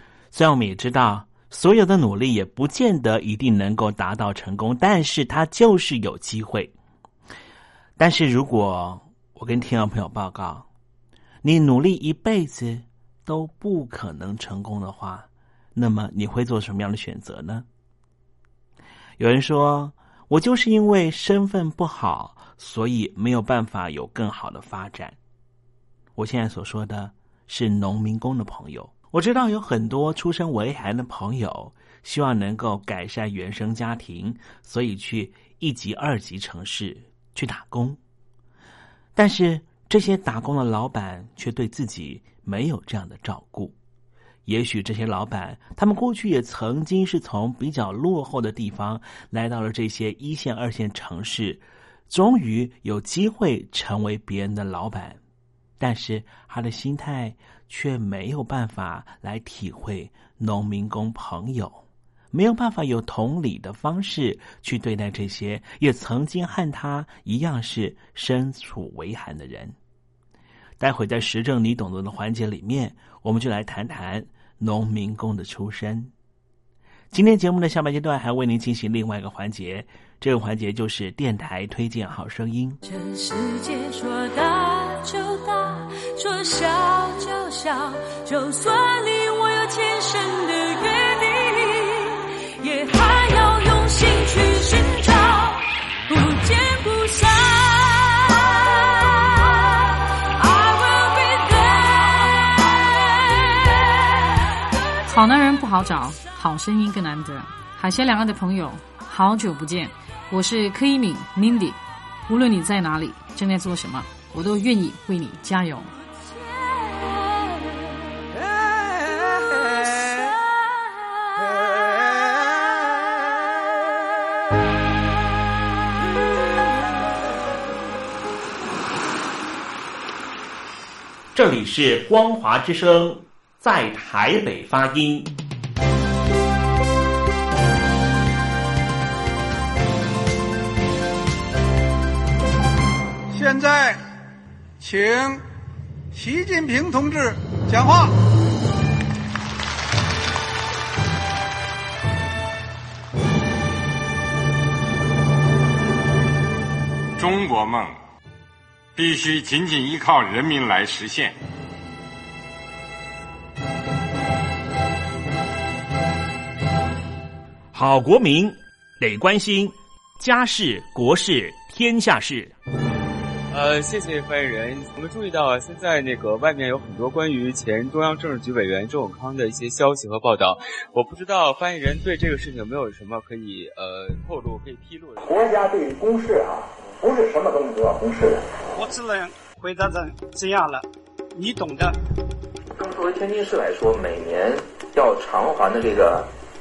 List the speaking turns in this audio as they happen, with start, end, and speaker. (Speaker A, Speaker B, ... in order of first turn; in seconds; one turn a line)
Speaker A: 0.3-6.7
Speaker A: 8.0-10.7
Speaker A: 11.4-17.7
Speaker A: 19.2-25.2
Speaker A: 26.2-38.0
Speaker A: 39.2-43.8
Speaker A: 44.5-55.2
Speaker A: 55.8-69.8
Speaker A: 70.8-76.1
Speaker A: 77.1-82.8
Speaker B: 82.8-104.4
Speaker C: 105.1-115.9
Speaker B: 116.4-117.9
Speaker B: 119.7-120.6
Speaker A: 131.3-135.3
Speaker D: 143.3-144.0
Speaker D: 144.8-145.4
Speaker D: 146.1-148.2
Speaker E: 157.2-158.0
Speaker E: 159.0-161.4
Speaker A: 167.7-172.5
Speaker F: 173.5-185.5
Speaker G: 185.2-188.5
Speaker H: 188.8-192.0
Speaker G: 192.8-196.3